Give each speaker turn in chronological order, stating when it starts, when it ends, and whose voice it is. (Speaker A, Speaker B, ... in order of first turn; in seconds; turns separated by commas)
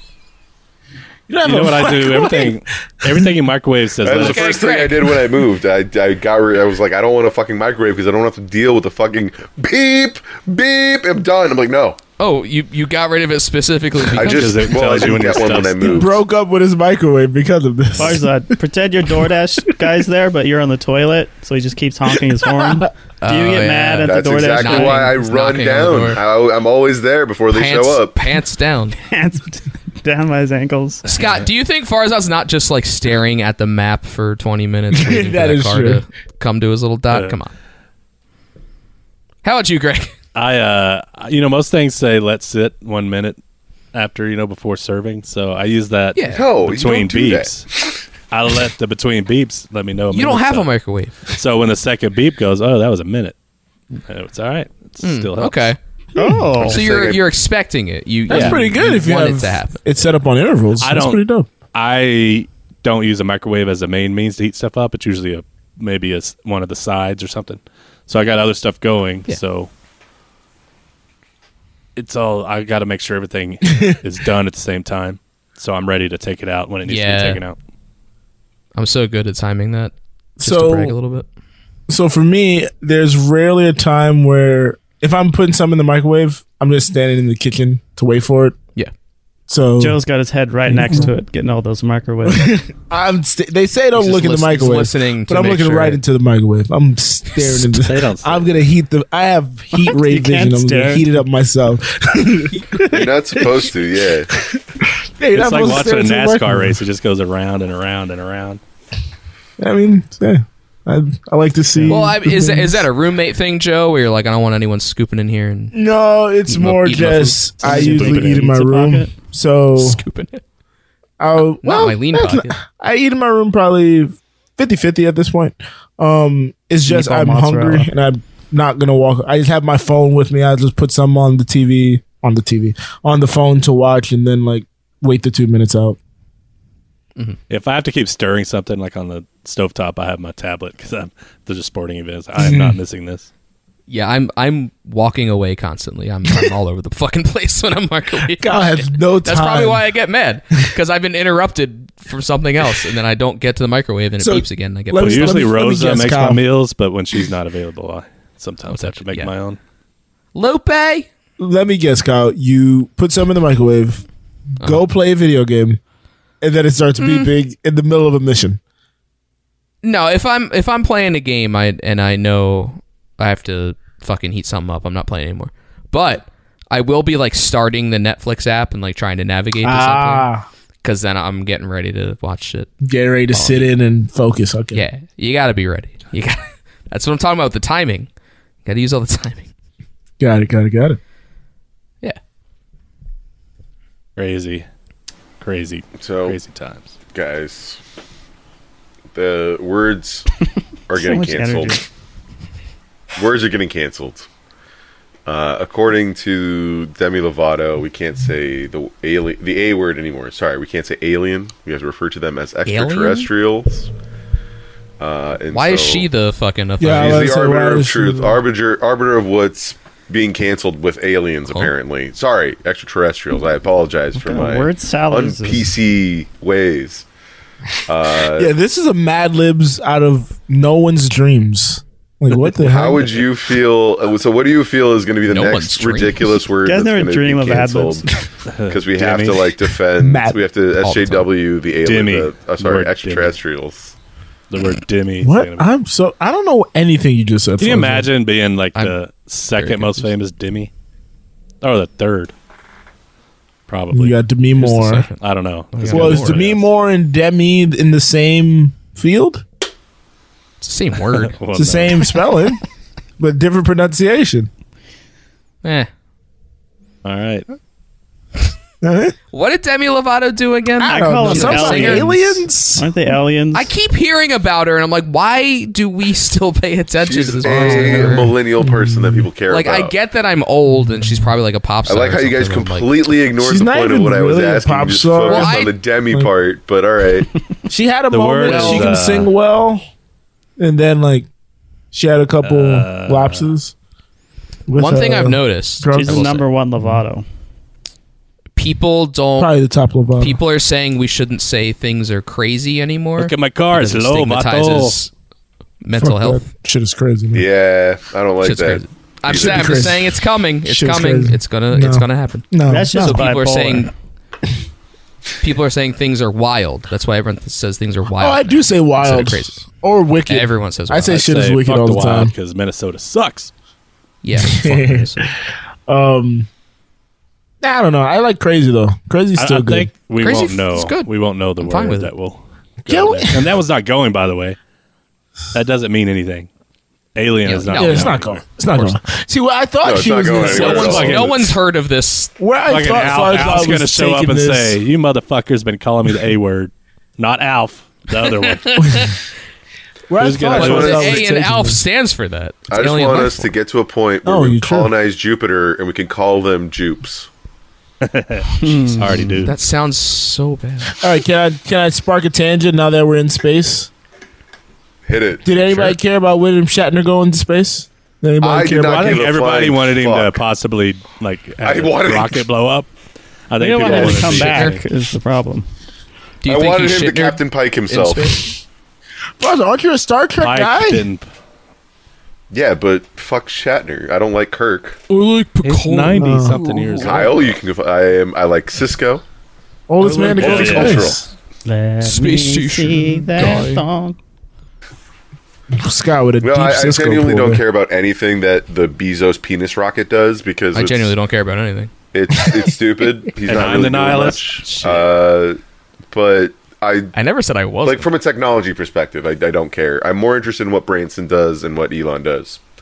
Speaker A: 1.3-3.3, Speaker B: 1.4-4.6, Speaker C: 4.0-12.0, Speaker D: 4.1-5.1, Speaker D: 12.2-14.7, Speaker C: 14.1-16.2, Speaker B: 14.1-16.1, Speaker A: 15.8-18.3, Speaker E: 17.9-25.2, Speaker A: 22.2-22.9, Speaker D: 23.2-26.2, Speaker C: 24.0-28.2, Speaker D: 27.5-29.0, Speaker E: 29.1-31.0, Speaker D: 31.1-37.5, Speaker A: 34.9-36.0, Speaker B: 37.1-37.4, Speaker D: 39.4-40.1, Speaker B: 40.3-43.4, Speaker B: 43.9-47.7, Speaker D: 46.1-46.5, Speaker C: 46.3-47.5, Speaker B: 48.3-50.7, Speaker D: 50.1-51.2, Speaker B: 51.3-53.3, Speaker B: 54.0-55.7, Speaker D: 55.0-55.8, Speaker A: 56.1-56.5, Speaker E: 56.2-56.8, Speaker C: 56.5-57.3, Speaker D: 56.6-59.8, Speaker A: 58.3-61.5, Speaker B: 58.3-58.6, Speaker B: 60.8-69.7, Speaker B: 72.0-77.6, Speaker D: 76.8-77.4, Speaker D: 78.7-81.2, Speaker A: 80.4-81.0, Speaker A: 81.9-88.5, Speaker A: 89.5-90.0, Speaker E: 89.8-92.6, Speaker A: 90.7-91.1, Speaker A: 92.2-103.7, Speaker D: 94.0-96.0, Speaker B: 97.5-98.6, Speaker E: 99.7-101.1, Speaker C: 102.9-104.3, Speaker A: 104.3-106.8, Speaker B: 105.3-108.6, Speaker A: 109.6-112.8, Speaker D: 111.9-115.7, Speaker A: 115.7-120.0, Speaker D: 116.5-118.3, Speaker E: 117.6-119.1, Speaker D: 119.8-120.4, Speaker A: 121.2-136.0, Speaker D: 121.6-122.5, Speaker E: 126.9-127.9, Speaker B: 137.5-143.3, Speaker A: 142.3-142.8, Speaker D: 143.9-155.4, Speaker A: 148.2-149.8, Speaker A: 154.2-156.4, Speaker B: 155.0-159.6, Speaker D: 158.7-159.3, Speaker D: 160.3-161.1, Speaker A: 161.4-164.0, Speaker A: 164.6-165.8, Speaker A: 166.4-168.6, Speaker D: 167.0-167.3, Speaker D: 169.8-180.3, Speaker A: 179.6-180.4, Speaker D: 180.8-182.7, Speaker A: 182.8-184.8, Speaker D: 183.3-183.7, Speaker D: 184.7-188.1, Speaker D: 188.6-189.5, Speaker A: 190.2-191.0, Speaker B: 194.2-194.7, Speaker B: 195.4-196.9, Speaker C: 196.0-196.4, Speaker C: 197.1-197.8, Speaker C: 199.1-200.3, Speaker C: 200.9-201.8, Speaker E: 200.9-201.8, Speaker C: 203.2-204.3, Speaker C: 205.2-213.9, Speaker D: 212.7-213.3, Speaker C: 215.0-216.1, Speaker D: 215.5-217.3, Speaker A: 216.8-218.4, Speaker C: 216.8-227.1, Speaker E: 224.2-225.7, Speaker C: 227.9-228.5, Speaker A: 228.2-233.2, Speaker C: 232.6-238.1, Speaker D: 235.3-236.4, Speaker E: 236.6-238.1, Speaker B: 238.5-239.5, Speaker C: 238.7-243.9, Speaker A: 240.0-240.4, Speaker D: 240.8-241.3, Speaker B: 241.8-243.4, Speaker B: 244.5-245.7, Speaker A: 245.2-248.1, Speaker B: 247.6-250.7, Speaker D: 249.5-250.1, Speaker B: 251.6-252.3, Speaker B: 253.7-254.2, Speaker A: 253.9-255.1, Speaker D: 254.6-255.2, Speaker B: 255.2-256.7, Speaker D: 255.7-256.4, Speaker A: 255.8-259.4, Speaker D: 260.6-261.4, Speaker B: 261.1-262.1, Speaker A: 261.5-262.6, Speaker A: 263.2-264.5, Speaker D: 265.6-265.9, Speaker B: 267.0-267.5, Speaker A: 268.8-269.1, Speaker D: 269.3-272.1, Speaker A: 270.8-272.9, Speaker E: 270.8-273.7, Speaker D: 273.5-278.3, Speaker C: 277.0-279.9, Speaker A: 277.4-279.3, Speaker D: 279.5-282.9, Speaker C: 281.9-287.3, Speaker A: 283.4-286.3, Speaker D: 285.2-285.7, Speaker A: 287.7-289.8, Speaker B: 288.1-289.3, Speaker D: 288.5-288.9, Speaker A: 290.6-291.3, Speaker A: 291.9-293.7, Speaker B: 292.4-293.5, Speaker A: 294.7-296.3, Speaker D: 294.8-296.5, Speaker E: 295.9-297.2, Speaker D: 298.6-299.5, Speaker A: 299.4-300.4, Speaker D: 300.2-305.1, Speaker B: 303.2-305.0, Speaker D: 305.8-306.4, Speaker A: 305.9-307.5, Speaker C: 307.3-309.8, Speaker D: 308.4-313.9, Speaker A: 309.3-313.2, Speaker E: 312.7-313.9, Speaker D: 315.4-319.6, Speaker A: 318.2-322.3, Speaker D: 320.3-321.2, Speaker B: 321.1-323.5, Speaker D: 324.2-325.2, Speaker A: 324.3-326.5, Speaker A: 327.6-329.9, Speaker B: 329.4-334.6, Speaker D: 330.2-331.1, Speaker D: 331.6-332.1, Speaker A: 332.9-333.5, Speaker B: 335.5-336.5, Speaker B: 337.1-338.4, Speaker D: 337.4-338.2, Speaker A: 337.7-341.2, Speaker D: 338.7-339.0, Speaker C: 339.8-341.3, Speaker D: 340.4-342.3, Speaker B: 340.5-341.5, Speaker A: 342.4-344.8, Speaker B: 342.7-348.9, Speaker D: 343.2-343.6, Speaker D: 348.2-349.2, Speaker A: 348.8-349.1, Speaker A: 350.1-351.8, Speaker B: 350.2-351.2, Speaker D: 350.5-353.5, Speaker C: 352.7-357.3, Speaker A: 354.2-354.9, Speaker B: 358.0-359.5, Speaker E: 358.6-359.4, Speaker D: 359.4-360.9, Speaker A: 361.0-363.9, Speaker C: 365.1-365.4, Speaker A: 365.4-369.3, Speaker B: 365.7-366.0, Speaker C: 368.4-370.4, Speaker B: 368.7-372.9, Speaker C: 371.6-372.4, Speaker B: 373.5-374.8, Speaker E: 373.6-375.7, Speaker A: 373.9-374.4, Speaker D: 374.4-374.8, Speaker D: 376.4-378.5, Speaker C: 376.4-378.4, Speaker A: 379.4-381.1, Speaker B: 380.4-381.3, Speaker C: 382.5-385.0, Speaker D: 385.1-387.1, Speaker B: 385.6-387.6, Speaker A: 386.1-386.6, Speaker C: 387.0-389.2, Speaker A: 389.9-391.2, Speaker C: 390.2-391.2, Speaker B: 390.2-391.1, Speaker E: 391.6-394.2, Speaker D: 392.0-393.8, Speaker A: 395.7-397.6, Speaker C: 396.4-401.1, Speaker D: 400.7-401.9, Speaker C: 402.1-405.6, Speaker B: 403.4-404.6, Speaker D: 404.6-405.1, Speaker C: 406.1-407.1, Speaker D: 407.1-408.1, Speaker C: 407.8-412.6